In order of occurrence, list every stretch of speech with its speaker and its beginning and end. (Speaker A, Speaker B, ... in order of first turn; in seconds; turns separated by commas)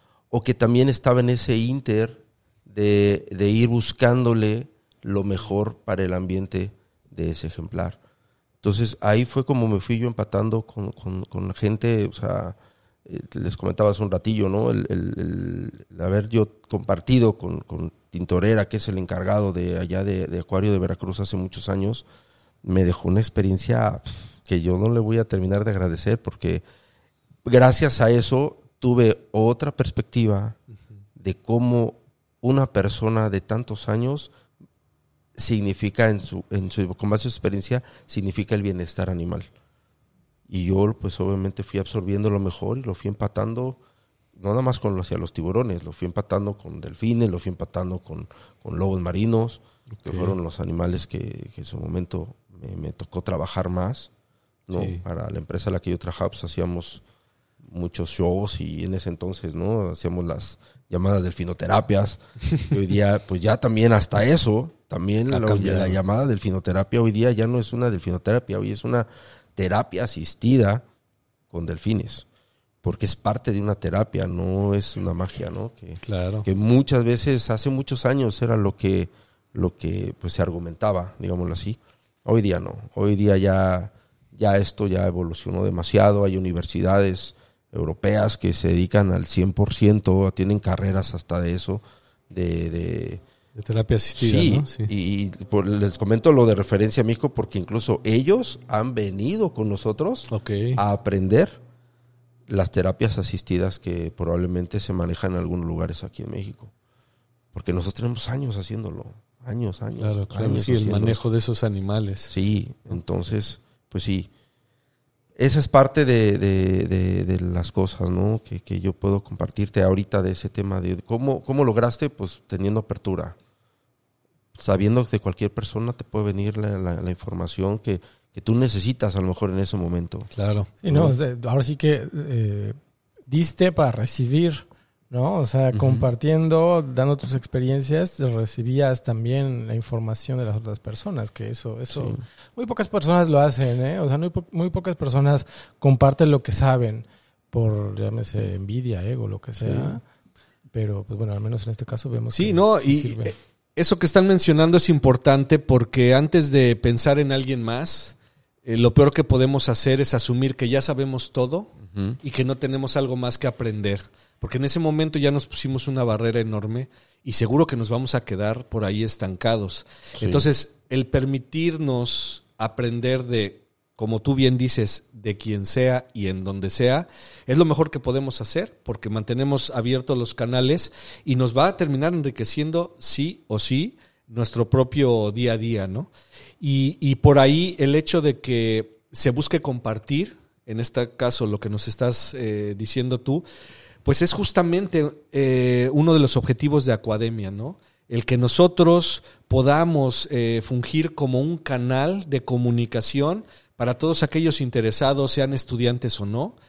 Speaker A: 0.3-8.0, Speaker A: 8.6-22.1, Speaker A: 22.6-26.6, Speaker A: 27.4-30.6, Speaker A: 31.2-34.3, Speaker A: 35.3-39.5, Speaker A: 40.5-43.8, Speaker A: 44.3-54.1, Speaker B: 49.9-50.4, Speaker A: 54.7-57.0, Speaker B: 54.7-55.0, Speaker A: 57.6-70.8, Speaker B: 65.3-66.0, Speaker A: 71.5-72.2, Speaker A: 72.8-93.2, Speaker B: 76.0-76.5, Speaker B: 93.6-94.9, Speaker A: 94.2-101.6, Speaker B: 100.3-100.8, Speaker A: 102.5-106.7, Speaker A: 107.5-111.2, Speaker B: 110.0-112.3, Speaker A: 112.3-114.3, Speaker A: 115.3-123.4, Speaker A: 124.5-130.3, Speaker B: 130.3-130.7, Speaker C: 130.8-132.8, Speaker A: 130.9-131.1, Speaker C: 133.3-150.0, Speaker A: 135.7-136.1, Speaker A: 141.9-142.2, Speaker C: 150.7-153.3, Speaker B: 152.3-193.4, Speaker A: 161.9-162.2, Speaker A: 170.2-170.4, Speaker B: 194.0-206.6